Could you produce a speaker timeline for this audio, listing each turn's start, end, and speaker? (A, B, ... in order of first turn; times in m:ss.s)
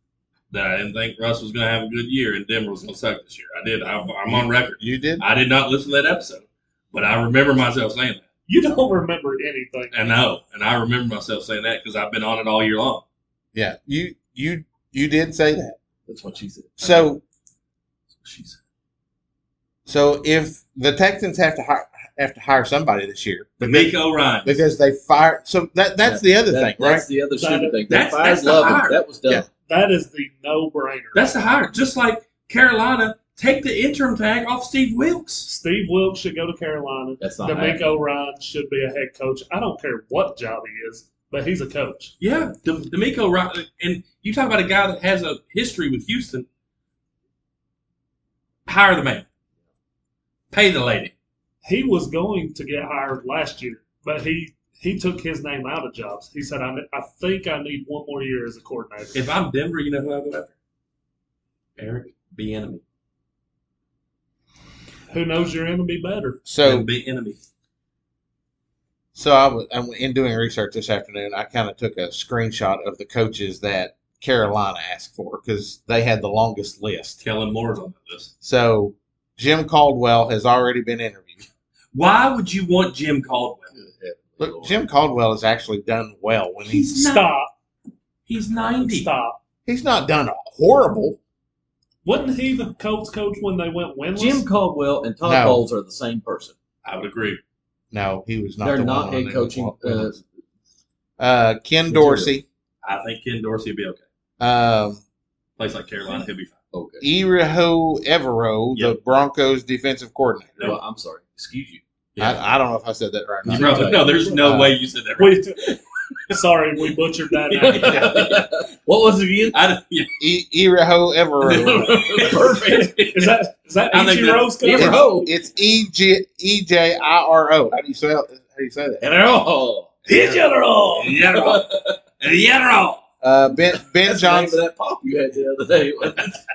0:00.5-0:08.2 A
0:04.3-0:05.2 B
0:08.5-0:10.1 C
0:09.9-0:13.0 A
0:13.5-0:15.8 B
0:16.1-0:17.1 D
0:16.8-0:17.2 B
0:18.2-0:18.6 D
0:19.8-0:27.0 B
0:23.6-0:24.6 A
0:26.0-0:29.4 D
0:27.3-0:27.8 C
0:27.9-0:29.0 A
0:29.7-0:31.3 C
0:31.1-0:35.5 A
0:35.4-0:42.1 C
0:37.2-0:37.9 D
0:42.2-0:46.4 A
0:48.6-0:49.2 A
0:50.5-0:51.1 A
0:51.6-0:59.2 C
0:59.1-1:00.5 A
1:01.8-1:02.8 A
1:05.1-1:06.4 C
1:06.4-1:06.9 B
1:06.6-1:07.4 A
1:09.1-1:17.2 B
1:17.2-1:18.3 A
1:18.4-1:21.4 B
1:21.9-1:23.7 A
1:23.7-1:24.8 D
1:24.4-1:26.9 B
1:26.7-1:27.3 A
1:26.9-1:27.5 C
1:28.3-1:29.1 A
1:28.8-1:29.4 C
1:29.6-1:31.2 B
1:32.0-1:34.4 C
1:34.2-1:36.5 D
1:35.2-1:35.6 B
1:36.8-1:37.4 A
1:37.9-1:40.1 B
1:38.6-1:40.2 D
1:41.2-1:42.4 B
1:41.9-1:42.3 D
1:42.8-1:44.0 A
1:44.4-1:45.0 B
1:45.6-1:46.6 A
1:46.7-1:47.0 D
1:47.0-1:50.7 B
1:50.6-1:51.8 D
1:52.2-1:54.7 B
1:53.4-1:55.5 A
1:53.5-1:54.2 D
1:55.2-1:55.6 C
1:56.3-1:58.1 C
1:57.6-1:58.4 A
1:57.7-1:59.6 D
1:59.5-2:00.1 A
2:00.2-2:02.0 B
2:01.5-2:03.4 A
2:01.5-2:02.9 D
2:03.1-2:05.1 C
2:03.9-2:04.9 A
2:04.6-2:05.3 D
2:04.8-2:09.0 B
2:09.0-2:10.4 D
2:10.1-2:11.1 C
2:10.1-2:13.0 A
2:11.2-2:11.9 D
2:13.2-2:14.6 B
2:13.8-2:16.4 D